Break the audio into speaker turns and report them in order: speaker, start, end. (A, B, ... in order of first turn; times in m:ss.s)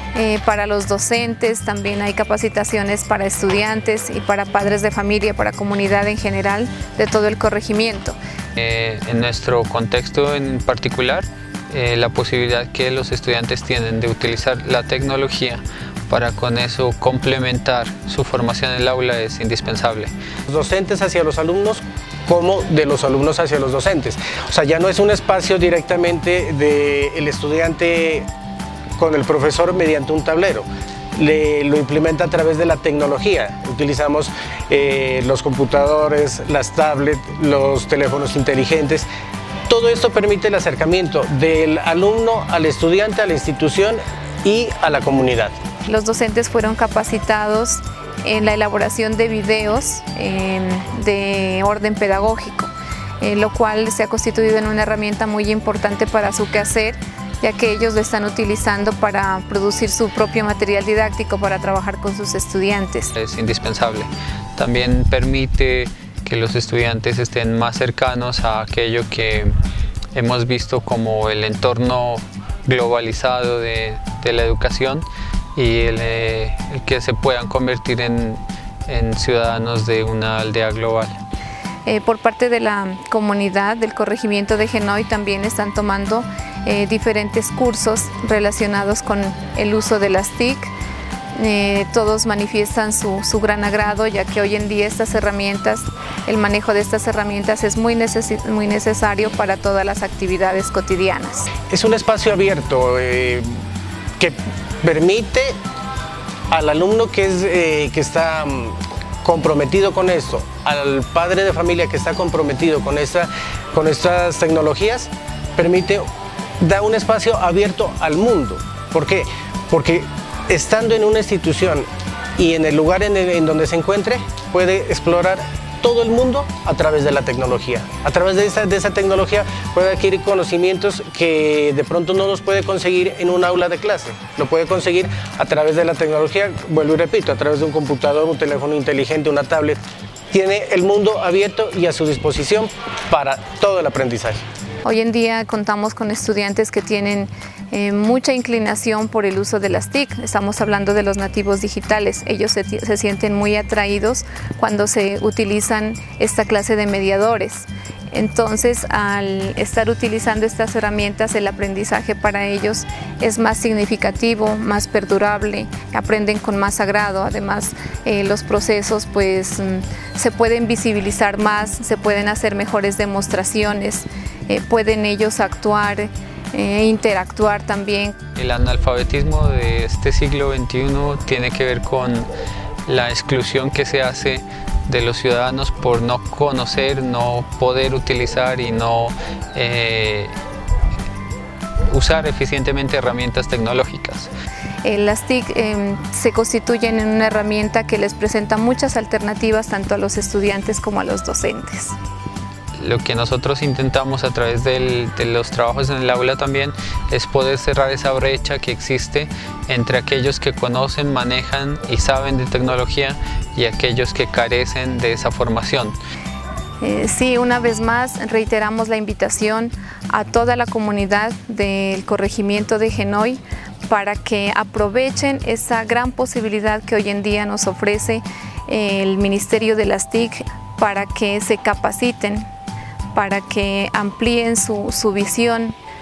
0:00.1-0:08.2 A
0:08.6-0:20.1 B
0:20.5-0:28.3 C
0:29.0-0:39.1 C
0:39.7-0:45.6 C
0:45.8-1:03.1 A
1:03.2-1:09.5 B
1:10.1-1:15.0 B
1:15.6-1:21.2 B
1:21.8-1:30.7 A
1:31.4-1:41.5 A
1:41.7-1:43.6 C
1:44.2-1:45.6 C
1:46.5-1:56.1 C
1:56.6-2:24.4 C
2:24.8-2:58.2 A
2:58.4-3:02.3 B
3:02.9-3:10.3 B
3:11.9-3:14.3 B
3:14.8-3:22.0 A
3:22.8-3:36.0 B
3:36.8-3:52.5 A
3:53.1-3:55.8 A